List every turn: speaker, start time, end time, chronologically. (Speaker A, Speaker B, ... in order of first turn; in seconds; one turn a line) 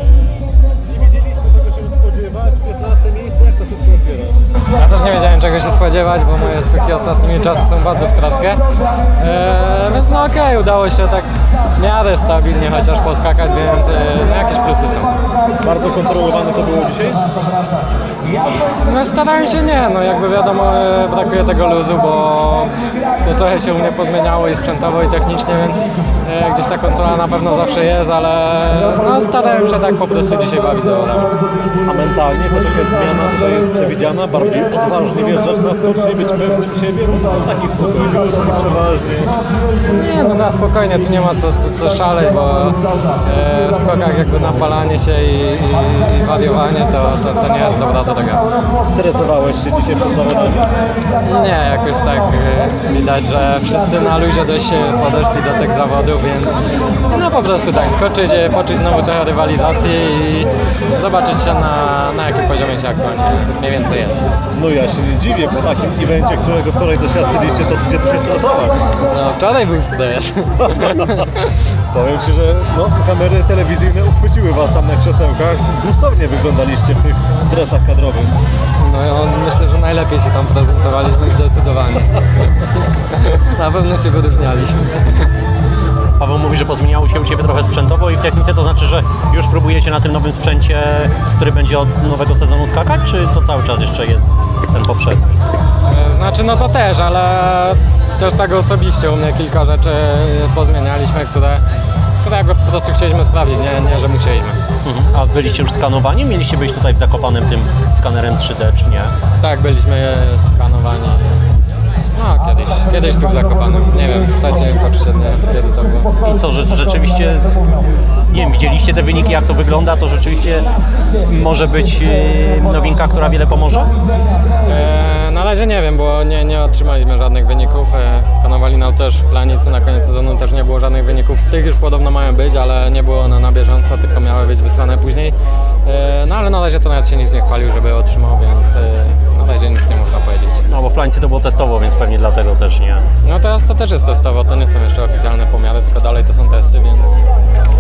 Speaker A: 1.2-4.4
Speaker B: 4.7-15.2
Speaker A: 15.6-17.3
Speaker B: 18.8-31.4
Speaker A: 31.9-39.3
Speaker B: 39.9-48.5
Speaker A: 48.8-50.7
Speaker B: 51.2-64.3
Speaker A: 64.5-68.9
Speaker B: 69.0-71.6
Speaker A: 70.8-71.1
Speaker A: 71.9-78.3
Speaker B: 78.8-85.3
Speaker C: 86.2-95.3
Speaker B: 95.8-101.6
Speaker B: 102.2-104.6
Speaker C: 104.8-109.1
Speaker B: 109.4-111.5
Speaker B: 112.1-116.2
Speaker C: 116.2-123.9
Speaker B: 124.7-140.7
Speaker C: 140.7-143.1
Speaker B: 143.2-147.2